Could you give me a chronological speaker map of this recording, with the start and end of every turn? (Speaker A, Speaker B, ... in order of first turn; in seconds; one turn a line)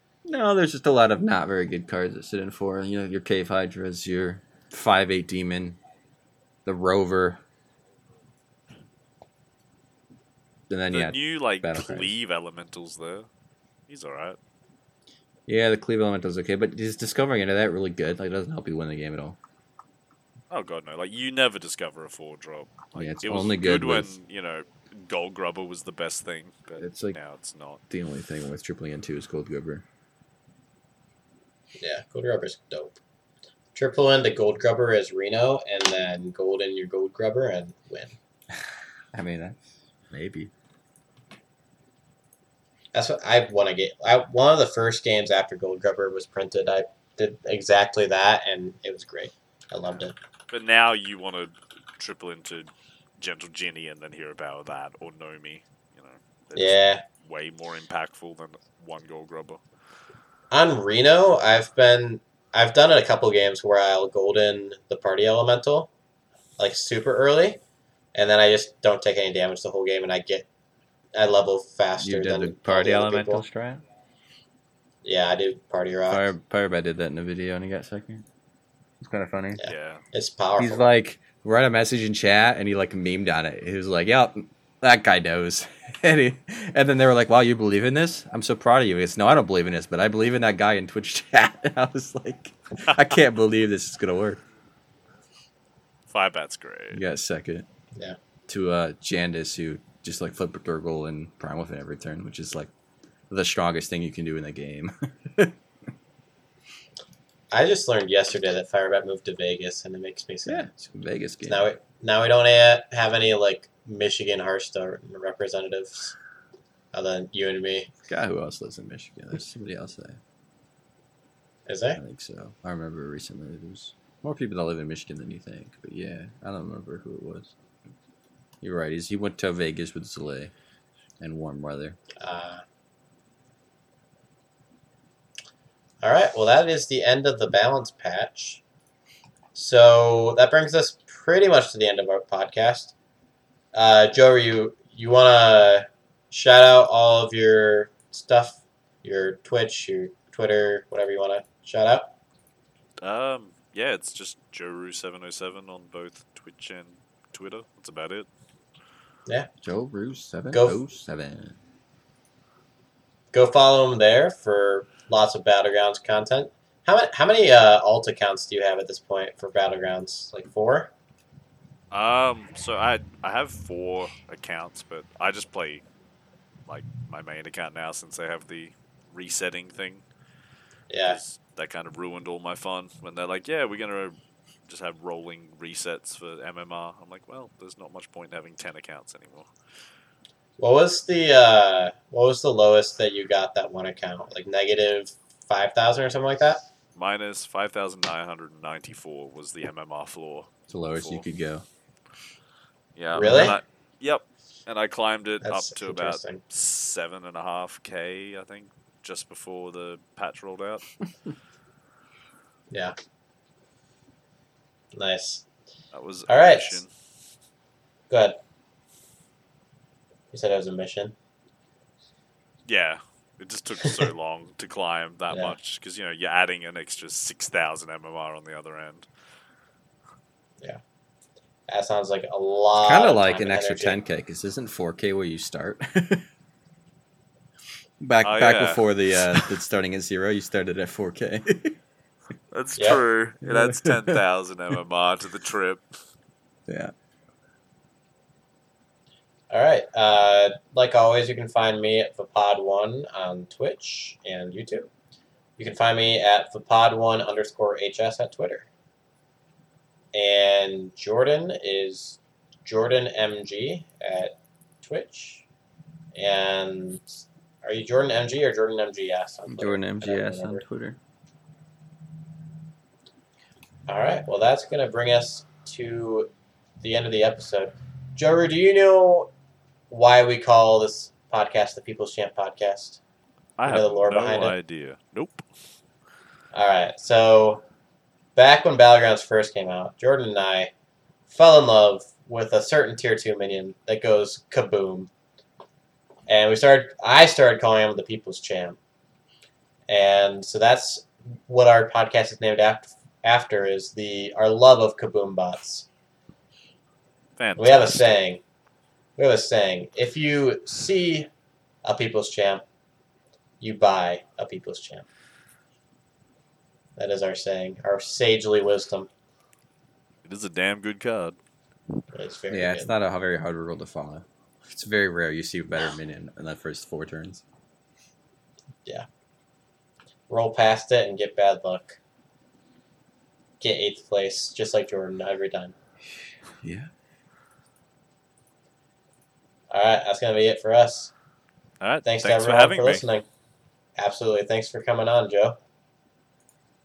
Speaker A: 0.2-5.8
Speaker A: 6.7-7.4
Speaker A: 10.7-12.1
Speaker B: 10.9-13.3
Speaker B: 13.9-14.4
Speaker A: 15.5-19.4
Speaker B: 20.5-27.8
Speaker A: 22.9-24.1
Speaker A: 26.8-27.2
Speaker A: 27.9-29.8
Speaker C: 31.8-33.0
Speaker C: 33.7-38.1
Speaker A: 39.1-40.5
Speaker C: 42.9-50.1
Speaker B: 50.5-59.6
Speaker C: 56.5-57.0
Speaker C: 60.5-65.9
Speaker C: 66.6-67.6
Speaker C: 68.1-70.5
Speaker C: 71.1-73.4
Speaker A: 72.0-73.8
Speaker C: 75.0-76.3
Speaker A: 76.1-78.2
Speaker A: 79.0-79.6
Speaker C: 79.6-80.9
Speaker B: 79.7-80.0
Speaker A: 80.6-94.4
Speaker B: 96.1-97.0
Speaker A: 96.9-97.7
Speaker A: 98.5-102.7
Speaker A: 103.3-105.5
Speaker C: 107.5-110.7
Speaker A: 110.5-111.7
Speaker C: 111.4-116.1
Speaker C: 116.9-117.9
Speaker A: 118.0-120.2
Speaker C: 121.7-122.0
Speaker A: 122.0-127.5
Speaker A: 128.6-130.5
Speaker A: 131.2-132.0
Speaker C: 132.2-132.6
Speaker C: 136.0-138.6
Speaker C: 139.5-142.9
Speaker C: 143.7-152.1
Speaker B: 153.0-158.3
Speaker A: 159.6-161.6
Speaker C: 160.5-160.8
Speaker C: 163.3-170.9
Speaker B: 171.9-175.8
Speaker B: 176.7-180.0
Speaker C: 180.9-181.2
Speaker B: 181.1-189.5
Speaker C: 190.6-196.7
Speaker B: 196.9-201.2
Speaker A: 200.7-201.6
Speaker B: 202.9-210.8
Speaker C: 203.1-203.6
Speaker A: 203.1-203.5
Speaker C: 205.4-206.4
Speaker C: 214.9-215.4
Speaker B: 215.9-216.9
Speaker C: 216.3-216.8
Speaker C: 218.1-218.4
Speaker C: 220.3-221.1
Speaker B: 222.7-229.1
Speaker C: 225.3-225.6
Speaker C: 231.7-234.0
Speaker A: 232.8-236.2
Speaker A: 238.0-241.8
Speaker B: 238.2-239.5
Speaker B: 242.5-245.8
Speaker C: 242.8-243.0
Speaker A: 243.4-244.2
Speaker A: 246.7-246.9
Speaker C: 249.5-254.9
Speaker C: 255.6-258.7
Speaker C: 260.1-265.5
Speaker C: 266.1-270.6
Speaker A: 269.5-271.0
Speaker C: 273.9-279.3
Speaker C: 279.9-283.0
Speaker B: 283.6-285.4
Speaker C: 283.6-284.6
Speaker C: 286.5-287.6
Speaker C: 288.4-290.7
Speaker C: 291.3-295.1
Speaker C: 296.3-298.8
Speaker C: 299.9-305.9
Speaker B: 307.4-308.2
Speaker C: 307.6-308.4
Speaker C: 309.2-311.3
Speaker C: 311.8-312.6
Speaker C: 313.6-315.0
Speaker C: 317.0-319.1
Speaker B: 320.2-321.4
Speaker C: 322.1-322.9
Speaker A: 322.5-327.4
Speaker C: 330.3-332.0
Speaker C: 333.6-335.7
Speaker A: 336.6-336.9
Speaker C: 339.7-341.1
Speaker B: 341.8-343.0
Speaker C: 342.0-343.2
Speaker C: 344.0-345.6